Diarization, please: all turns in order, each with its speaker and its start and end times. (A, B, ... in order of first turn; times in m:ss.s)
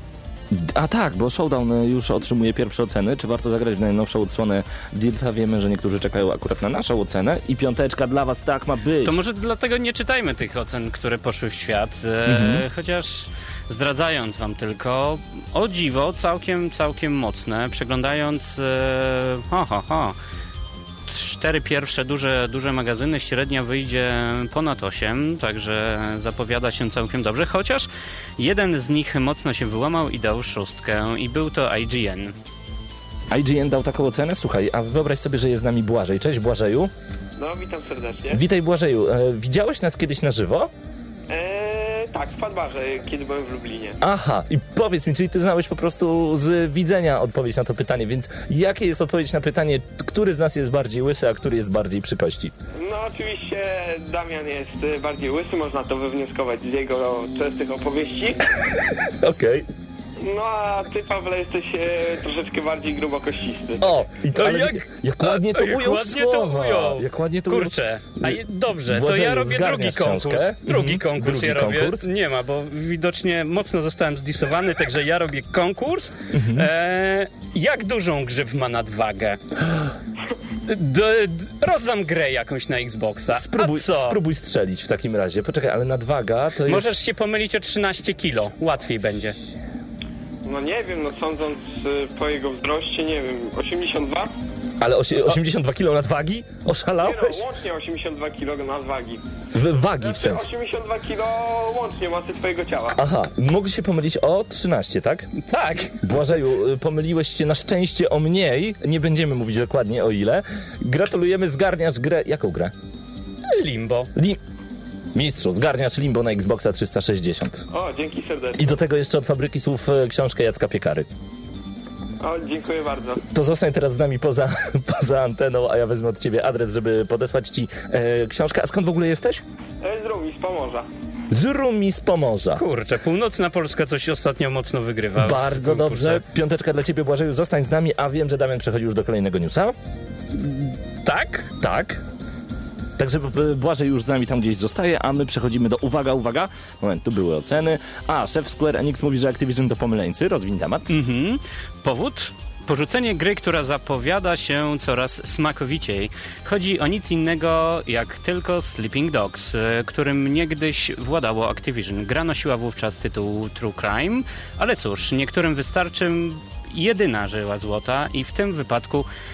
0:00.5-0:09.2 A
0:09.0-0:20.2 B
0:12.2-0:12.6 A
0:21.0-0:32.4 B
0:33.3-0:36.9 A
0:37.4-0:38.4 C
0:38.3-0:40.7 A
0:41.3-0:44.0 C
0:44.0-0:52.5 A
0:52.8-0:58.5 C
0:58.7-0:59.7 A
1:00.2-1:03.9 C
1:03.8-1:12.0 A
1:04.3-1:19.4 B
1:16.3-1:16.7 A
1:20.6-1:24.2 B
1:23.3-1:26.9 A
1:26.6-1:29.4 B
1:30.4-1:34.3 C
1:34.8-1:37.4 A
1:37.0-1:39.2 C
1:39.5-1:40.4 A
1:40.0-1:43.0 C
1:42.9-1:45.3 A
1:45.3-1:46.0 B
1:46.0-1:52.7 A
1:53.4-1:54.1 B
1:54.1-1:54.4 A
1:55.1-1:57.6 A
1:57.7-1:58.6 C
1:58.6-2:01.1 A
2:02.2-2:03.2 C
2:03.2-2:09.4 A
2:09.8-2:10.9 C
2:11.3-2:12.6 A
2:12.5-2:16.2 B
2:15.2-2:19.7 A
2:20.3-2:21.5 B
2:21.6-2:22.0 A
2:23.0-2:30.9 A
2:30.9-2:49.1 B